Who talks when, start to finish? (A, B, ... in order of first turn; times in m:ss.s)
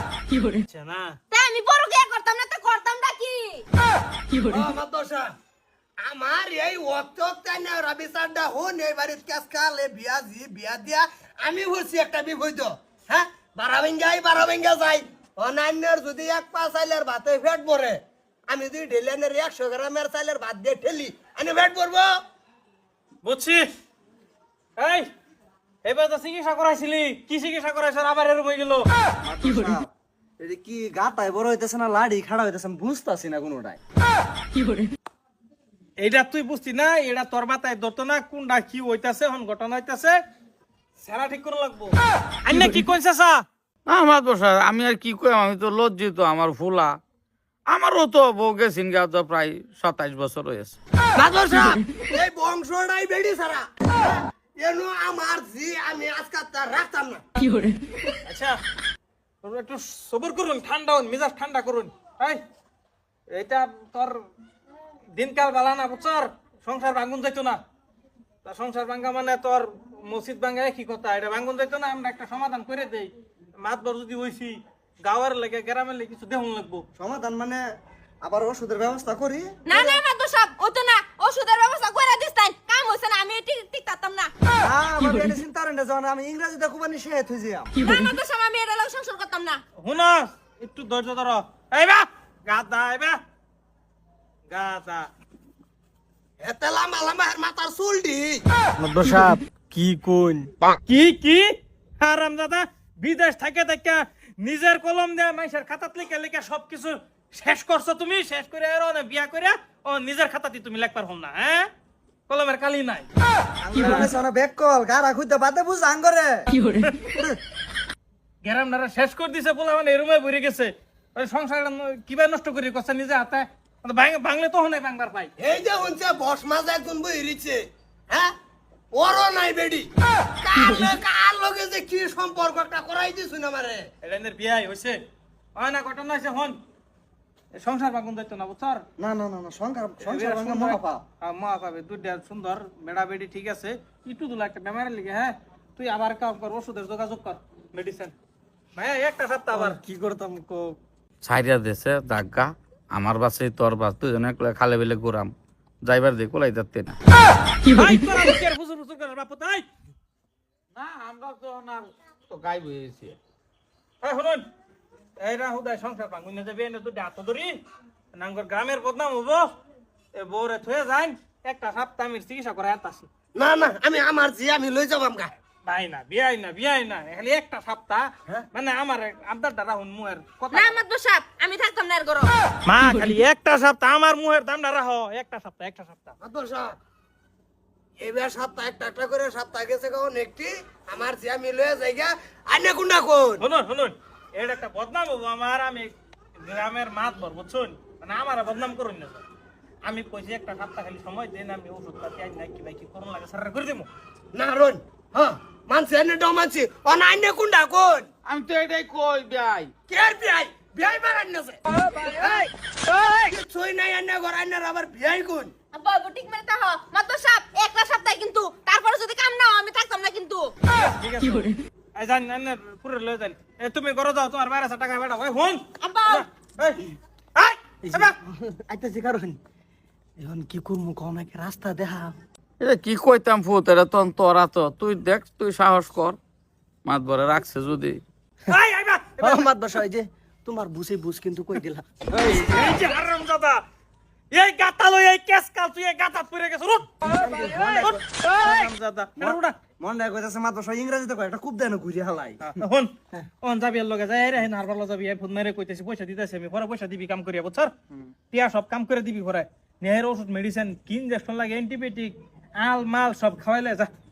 0:00.7-0:01.2 A
0:01.3-0:03.6 B
0:04.5-0:05.3 C
0:06.0-0:22.1 C
0:23.2-0:23.6 A
0:24.8-0:25.1 A
0:25.8-0:28.8 A
0:29.2-0:29.9 D
0:30.4-0:33.8 D
0:36.0-0:40.2 A
0:41.0-0:43.4 A
0:43.9-0:47.0 E
0:47.7-0:50.8 E
0:51.2-0:57.2 C
0:58.2-0:58.6 A
0:59.4-1:02.4 A
1:03.3-1:04.2 A
1:05.1-1:07.6 A
1:08.4-1:16.8 A
1:17.0-1:17.6 D
1:18.2-1:20.0 D
1:19.7-1:24.3 B
1:24.6-1:27.7 D
1:27.7-1:29.6 B
1:29.8-1:33.2 A
1:34.5-1:35.1 A
1:36.4-1:38.4 C
1:38.8-1:39.4 E
1:40.8-1:51.7 A
1:52.3-1:53.1 A
1:53.6-1:56.4 D
1:53.8-1:54.1 A
1:57.1-1:57.4 D
1:58.4-2:05.3 A
2:05.4-2:08.3 C
2:08.9-2:09.9 C
2:10.4-2:13.9 C
2:14.0-2:15.0 A
2:15.5-2:16.6 A
2:17.6-2:18.8 A
2:19.0-2:21.0 D
2:20.0-2:28.1 A
2:28.8-2:30.5 A
2:29.6-2:30.5 D
2:31.2-2:37.0 E
2:37.7-2:39.6 A
2:40.7-2:43.2 E
2:44.0-2:44.4 A
2:45.2-2:47.6 A
2:48.1-2:49.5 A
2:50.1-2:53.1 A
2:53.3-2:55.3 C
2:55.6-3:00.8 A
3:00.5-3:02.3 B
3:02.6-3:06.2 A
3:06.2-3:06.8 C
3:08.0-3:13.4 C
3:13.4-3:19.2 A
3:19.8-3:23.9 A
3:24.3-3:28.1 C
3:28.2-3:29.7 E
3:29.9-3:35.5 C
3:35.7-3:40.5 B
3:40.7-3:46.8 A
3:45.8-3:46.2 B
3:47.4-3:48.1 A
3:48.7-3:49.3 D
3:50.6-3:52.1 D
3:52.6-3:56.2 E
3:56.8-3:58.0 E
3:58.5-3:59.5 A
3:59.2-4:00.0 D
4:00.4-4:01.6 C
4:02.0-4:02.8 D
4:02.4-4:03.6 A
4:04.3-4:09.6 A
4:07.0-4:08.0 D
4:09.2-4:12.5 D
4:12.4-4:17.7 A
4:18.3-4:23.9 A